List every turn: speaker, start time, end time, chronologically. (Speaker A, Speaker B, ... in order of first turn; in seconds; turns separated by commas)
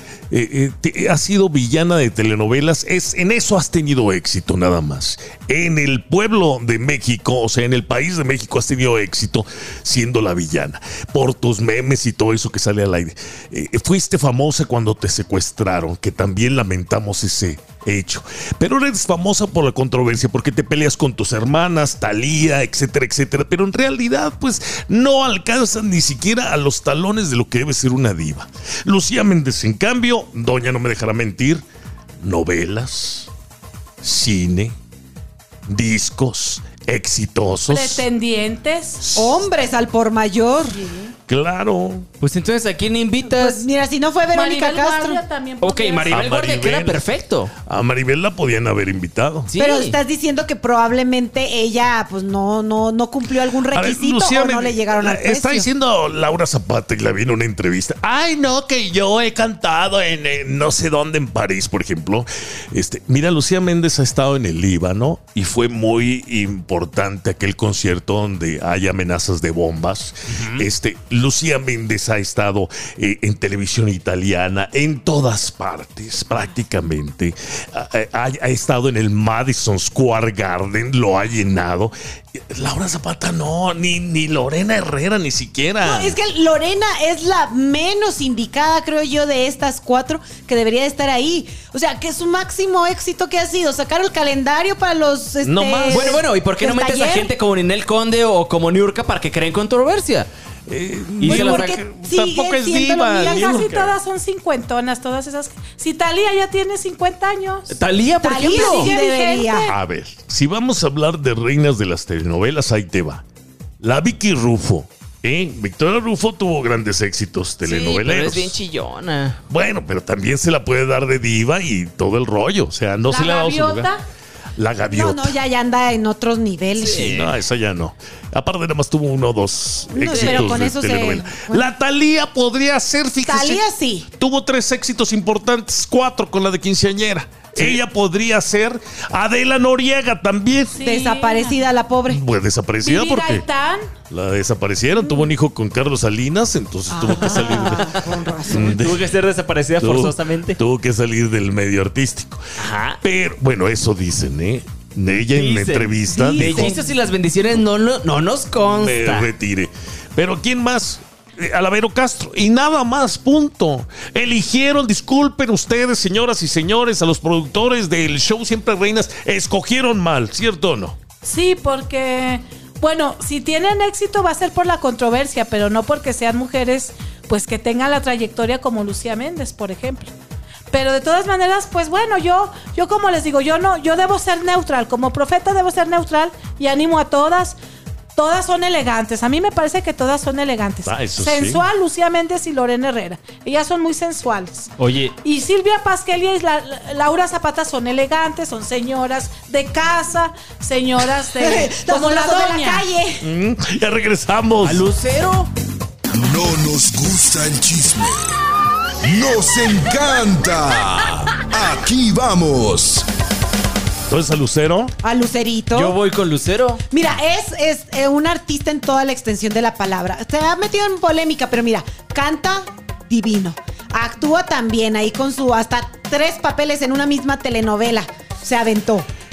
Speaker A: 0.3-31.6, Speaker A: 32.2-33.3, Speaker A: 34.0-34.8, Speaker A: 35.7-38.1, Speaker B: 37.7-39.1, Speaker A: 39.0-39.4, Speaker C: 39.1-40.8, Speaker B: 40.7-41.1, Speaker A: 41.3-42.1, Speaker D: 42.2-43.6, Speaker C: 43.2-45.2, Speaker B: 44.3-46.2, Speaker D: 45.6-47.5, Speaker A: 46.1-47.1, Speaker A: 47.6-49.5, Speaker D: 49.5-50.0, Speaker C: 49.6-55.7, Speaker A: 53.7-86.2, Speaker D: 70.3-70.7, Speaker C: 85.8-97.3, Speaker A: 95.4-96.1, Speaker D: 95.9-100.3, Speaker A: 100.7-104.0, Speaker D: 101.2-101.8, Speaker C: 101.2-103.7, Speaker B: 103.1-107.8, Speaker D: 107.7-108.9, Speaker C: 108.2-109.7, Speaker B: 108.5-109.8, Speaker A: 109.7-113.2, Speaker A: 113.8-118.6, Speaker D: 117.6-119.4, Speaker A: 119.5-123.9, Speaker B: 123.1-124.0, Speaker A: 124.6-125.4, Speaker C: 124.9-127.1, Speaker D: 126.8-127.4, Speaker A: 127.0-140.8, Speaker C: 129.9-131.7, Speaker B: 130.1-130.7, Speaker C: 133.2-134.1, Speaker B: 140.7-141.6, Speaker C: 140.8-142.2, Speaker A: 142.1-143.4, Speaker B: 142.8-143.9, Speaker A: 144.1-147.9, Speaker C: 146.9-148.8, Speaker D: 147.4-147.7, Speaker A: 148.5-149.0, Speaker D: 148.5-150.6, Speaker A: 149.8-152.4, Speaker D: 152.6-153.0, Speaker A: 153.0-156.8, Speaker D: 155.3-159.3, Speaker C: 156.0-156.9, Speaker A: 158.7-171.0, Speaker B: 171.2-180.1, Speaker B: 180.7-187.6, Speaker B: 188.1-194.7, Speaker A: 190.9-191.6, Speaker D: 194.8-195.1, Speaker B: 195.2-202.8, Speaker C: 201.4-203.3, Speaker A: 203.2-204.8, Speaker D: 204.6-205.5, Speaker E: 206.1-208.4, Speaker E: 209.0-213.1, Speaker A: 214.1-214.9, Speaker C: 215.0-216.0, Speaker D: 215.7-216.8, Speaker C: 216.9-229.1